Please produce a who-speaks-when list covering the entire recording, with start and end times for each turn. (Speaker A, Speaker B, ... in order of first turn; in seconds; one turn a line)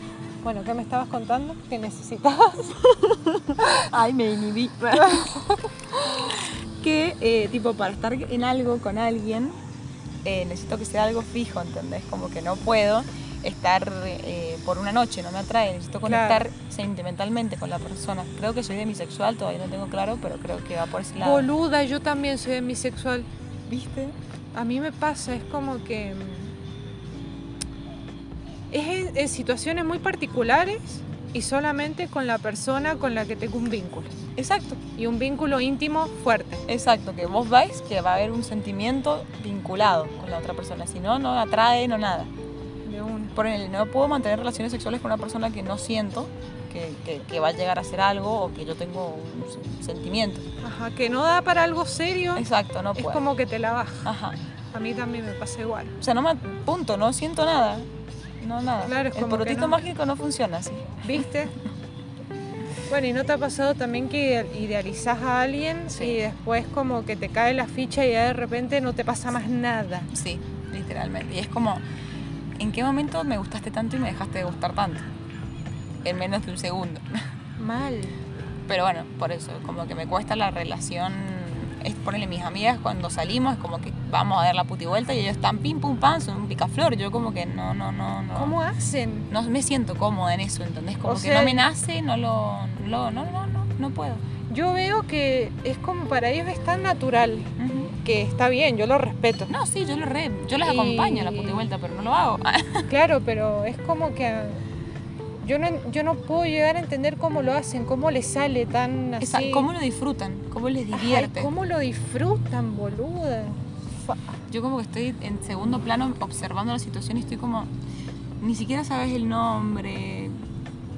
Speaker A: 0.4-2.7
Speaker B: 2.7-5.4
Speaker A: 4.9-5.6
Speaker B: 6.0-9.6
Speaker B: 10.2-21.5
Speaker A: 16.0-16.4
Speaker A: 21.2-23.3
Speaker B: 23.7-24.1
Speaker A: 24.5-26.5
Speaker A: 28.7-34.2
Speaker B: 34.4-34.8
Speaker A: 34.9-36.6
Speaker B: 36.7-42.3
Speaker A: 42.8-43.3
Speaker B: 43.3-50.4
Speaker A: 50.6-54.1
Speaker B: 52.4-53.2
Speaker B: 54.0-54.4
Speaker A: 54.7-55.9
Speaker B: 56.0-57.9
Speaker B: 58.4-61.2
Speaker A: 58.8-59.8
Speaker A: 61.0-61.5
Speaker A: 62.9-70.1
Speaker B: 65.9-66.2
Speaker B: 70.1-71.8
Speaker B: 72.6-75.1
Speaker B: 76.0-77.2
Speaker A: 77.6-78.2
Speaker B: 78.7-88.5
Speaker A: 88.3-89.3
Speaker B: 89.3-94.2
Speaker A: 91.0-91.6
Speaker A: 94.5-99.5
Speaker B: 97.6-97.9
Speaker B: 99.5-102.9
Speaker A: 100.6-101.6
Speaker A: 102.9-104.6
Speaker A: 105.4-109.7
Speaker B: 109.2-111.5
Speaker A: 110.9-114.2
Speaker B: 114.5-117.7
Speaker B: 118.4-120.4